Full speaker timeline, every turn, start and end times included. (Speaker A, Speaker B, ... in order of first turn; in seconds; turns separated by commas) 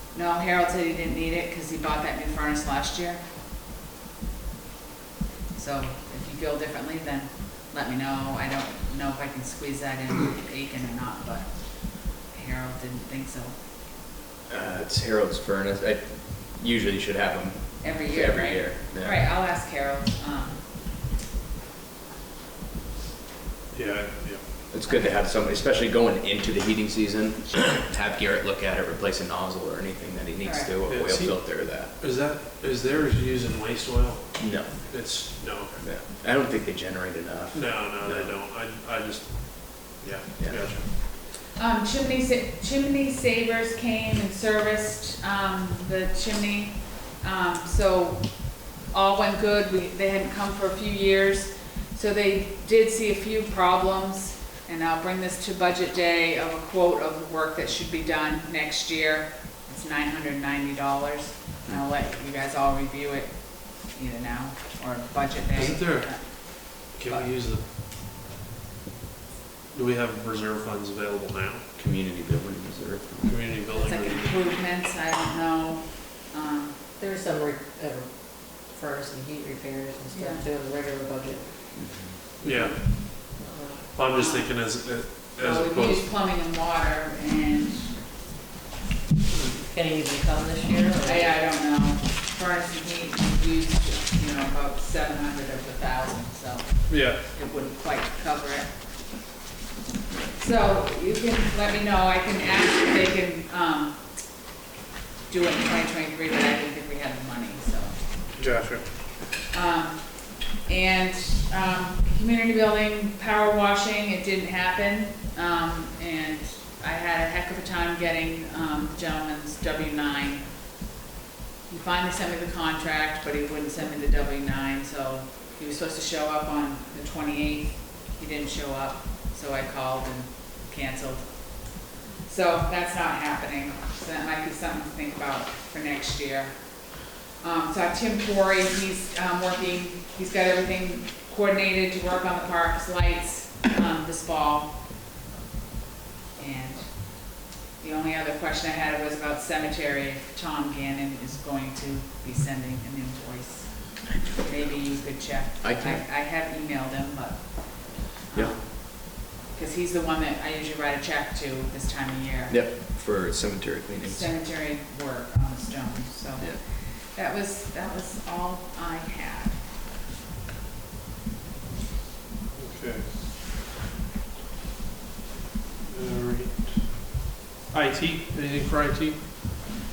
Speaker A: 0.1-3.2, Speaker A: 5.5-13.6, Speaker B: 14.5-19.3, Speaker A: 17.8-20.6, Speaker C: 23.7-24.7, Speaker B: 24.7-31.9, Speaker A: 30.4-30.8, Speaker C: 30.8-35.8, Speaker B: 34.4-34.9, Speaker B: 35.8-38.4, Speaker C: 37.5-40.9, Speaker B: 40.4-40.7, Speaker A: 41.5-67.3, Speaker C: 65.5-67.7, Speaker C: 69.7-71.6, Speaker B: 71.8-73.4, Speaker C: 73.2-74.3, Speaker A: 73.7-76.8, Speaker D: 77.0-81.5, Speaker A: 80.1-80.5, Speaker B: 81.8-82.2, Speaker C: 82.4-83.3, Speaker D: 82.9-84.0, Speaker C: 83.9-86.1, Speaker A: 84.1-84.5, Speaker A: 85.4-88.0, Speaker D: 89.6-91.4, Speaker A: 91.0-98.9, Speaker C: 96.9-97.2, Speaker A: 100.3-104.0, Speaker A: 105.3-108.0, Speaker C: 108.4-108.8, Speaker A: 109.5-120.6, Speaker A: 121.7-144.8, Speaker A: 146.4-162.7, Speaker B: 154.2-154.7, Speaker B: 155.6-156.0, Speaker B: 162.5-164.3, Speaker A: 164.0-169.6, Speaker C: 172.5-173.2, Speaker C: 175.9-179.2